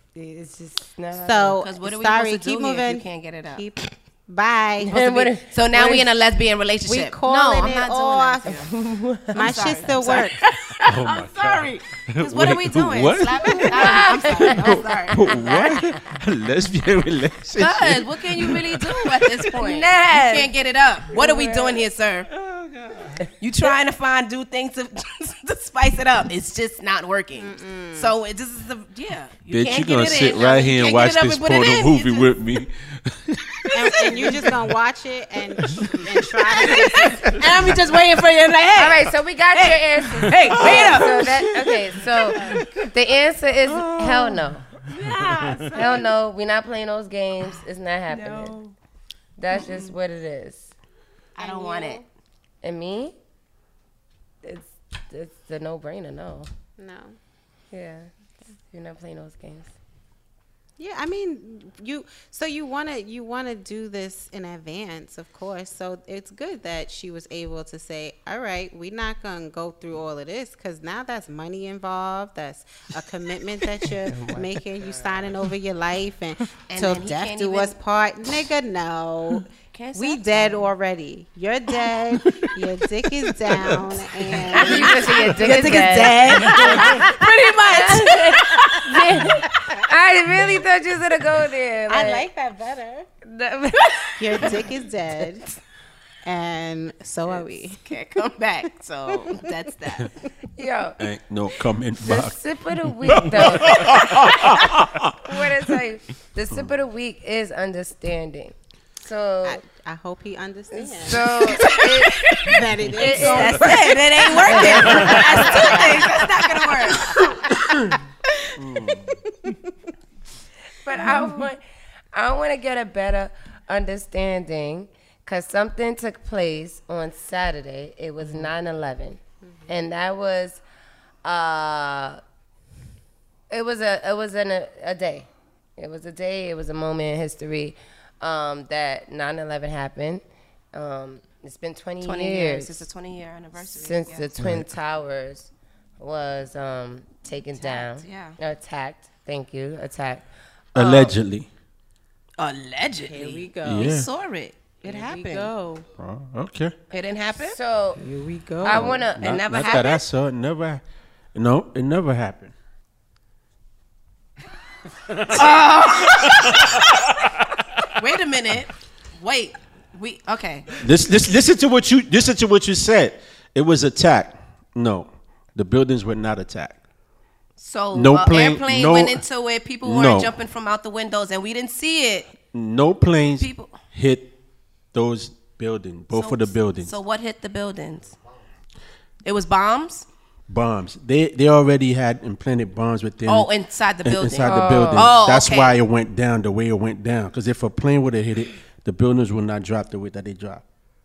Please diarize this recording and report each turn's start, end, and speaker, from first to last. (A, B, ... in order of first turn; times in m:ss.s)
0:00.1-0:01.6 A
0:01.2-0:05.1 B
0:01.6-0:03.7 C
0:04.9-0:06.0 A
0:04.9-0:08.7 C
0:06.8-0:08.7 B
0:08.4-0:10.3 A
0:09.3-0:15.3 C
0:09.3-0:10.4 B
0:10.8-0:19.5 D
0:13.5-0:15.1 B
0:13.7-0:14.6 A
0:15.4-0:15.9 A
0:17.6-0:22.3 C
0:19.6-0:20.5 A
0:21.1-0:21.8 A
0:22.5-0:22.9 D
0:23.4-0:32.3 C
0:27.4-0:28.1 B
0:29.5-0:34.6 D
0:33.7-0:37.5 B
0:33.9-0:34.4 C
0:35.6-0:37.8 D
0:36.6-0:42.6 C
0:38.7-0:44.7 A
0:40.5-0:40.9 D
0:42.3-0:42.6 B
0:43.7-0:44.4 D
0:44.9-0:46.1 C
0:45.7-0:48.6 A
0:48.1-0:48.7 C
0:49.4-0:50.7 A
0:49.5-0:49.9 C
0:51.4-0:52.0 C
0:51.4-0:52.0 B
0:52.6-0:53.1 A
0:54.4-0:56.5 A
0:56.8-0:57.2 B
0:57.7-0:58.1 A
0:58.7-0:59.7 A
1:00.8-1:28.1 B
1:14.1-1:15.3 A
1:16.7-1:17.8 C
1:19.7-1:20.7 C
1:23.5-1:23.8 D
1:24.4-1:29.3 C
1:24.5-1:32.3 A
1:31.9-1:33.1 B
1:33.2-1:34.6 A
1:33.8-1:34.7 C
1:34.2-1:35.5 B
1:36.2-1:37.8 B
1:37.2-1:40.1 C
1:39.2-1:40.0 B
1:40.6-1:41.0 A
1:41.0-1:45.2 D
1:42.0-1:49.6 A
1:49.4-1:51.9 B
1:50.7-1:55.8 A
1:51.4-1:57.5 C
1:52.4-1:57.3 B
1:57.6-1:57.9 D
1:58.6-1:59.2 D
2:00.8-2:01.6 A
2:02.1-2:10.6 A
2:11.2-2:12.2 A
2:13.5-2:20.2 A
2:20.7-2:22.9 A
2:22.0-2:24.3 C
2:23.7-2:30.2 A
2:23.8-2:24.2 B
2:24.4-2:24.7 D
2:27.5-2:28.4 C
2:30.7-2:31.5 D
2:30.8-2:31.1 A
2:32.4-2:35.5 C
2:33.0-2:34.0 B
2:33.6-2:34.1 D
2:34.8-2:35.9 B
2:36.0-2:36.8 D
2:36.9-2:37.6 C
2:37.5-2:38.0 A
2:38.0-2:39.1 B
2:38.6-2:40.0 A
2:38.6-2:40.8 D
2:41.3-2:42.5 D
2:45.3-2:47.1 C
2:47.9-2:50.8 C
2:50.8-2:56.8 D
2:57.6-3:02.3 C
2:57.9-2:59.2 D
2:59.8-3:00.3 D
3:02.5-3:04.3 D
3:03.4-3:03.7 C
3:04.9-3:06.9 D
3:06.1-3:08.2 C
3:09.2-3:10.1 C
3:10.5-3:13.5 D
3:13.2-3:15.8 C
3:14.0-3:20.6 D
3:14.4-3:15.1 A